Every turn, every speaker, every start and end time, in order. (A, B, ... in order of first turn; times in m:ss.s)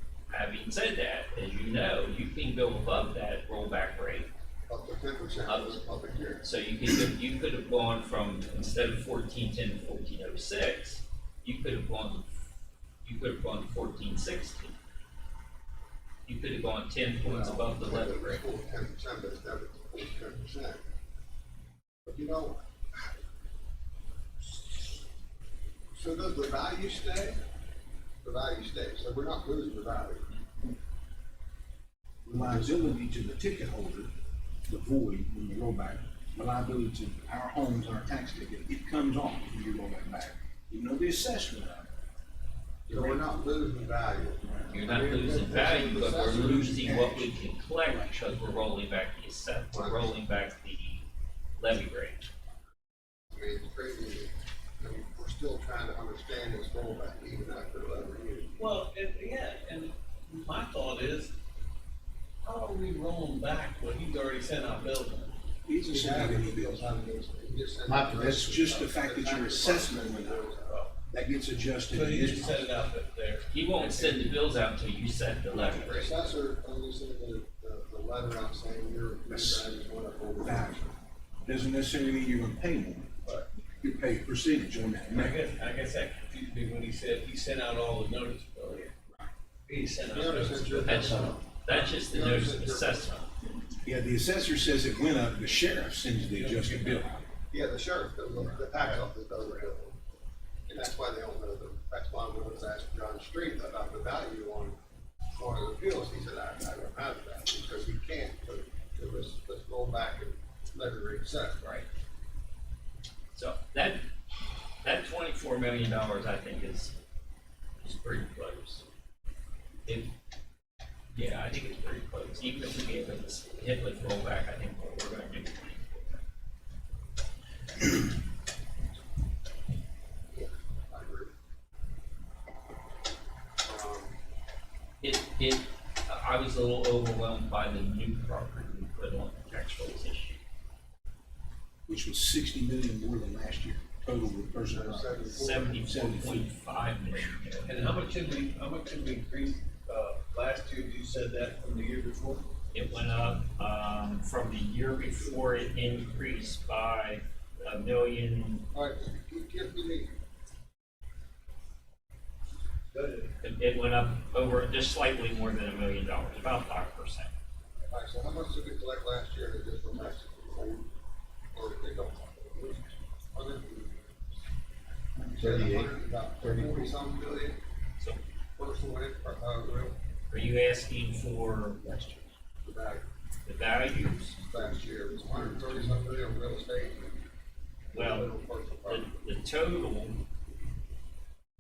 0:00.3-0:04.3 A
0:04.7-0:06.4 B
0:05.5-0:05.8 A
0:06.4-0:12.4 A
0:13.0-0:14.8 A
0:16.2-0:18.4 A
0:17.2-0:20.8 B
0:22.0-0:23.2 B
0:25.9-0:27.4 B
0:28.2-0:30.3 B
0:32.2-0:34.1 C
0:32.3-0:32.6 B
0:34.7-0:41.9 C
0:42.9-0:47.2 B
0:42.9-0:43.2 C
0:44.7-0:51.1 A
0:47.9-0:48.3 C
0:49.7-0:50.1 B
0:51.6-0:52.2 A
0:53.3-0:58.5 B
0:58.6-1:01.3 D
1:02.4-1:05.4 D
1:05.6-1:06.8 C
1:05.9-1:10.8 B
1:07.8-1:10.5 C
1:11.1-1:12.7 C
1:11.9-1:14.3 D
1:13.5-1:16.3 A
1:15.8-1:20.9 B
1:19.3-1:19.7 C
1:20.4-1:20.8 C
1:21.4-1:25.4 C
1:25.1-1:28.9 D
1:29.7-1:31.3 D
1:30.1-1:33.1 B
1:30.8-1:33.3 A
1:33.8-1:37.3 C
1:36.3-1:37.1 D
1:37.5-1:40.0 B
1:38.5-1:38.9 C
1:40.7-1:44.8 B
1:45.3-1:51.6 B
1:51.6-1:51.9 A
1:53.3-1:54.1 A
1:54.8-1:56.9 A
1:57.8-1:58.8 A
1:59.8-2:00.1 A
2:01.1-2:06.2 A
2:10.3-2:11.3 B
2:13.6-2:14.1 B
2:15.0-2:20.4 A
2:21.9-2:25.2 C
2:24.7-2:26.0 B
2:25.3-2:27.8 A
2:25.8-2:26.5 C
2:27.6-2:32.4 D
2:32.7-2:38.7 A
2:38.7-2:40.1 B
2:42.9-2:43.3 B
2:43.4-2:47.3 A
2:47.9-2:50.9 B
2:51.5-2:54.1 B
2:55.2-2:56.9 C
2:55.3-2:57.6 B
2:58.6-3:00.0 B
3:00.3-3:01.9 A
3:02.6-3:03.0 B
3:03.4-3:04.4 A
3:04.4-3:07.2 B
3:05.2-3:05.8 C
3:07.9-3:09.1 B
3:07.9-3:08.3 A
3:08.9-3:10.2 A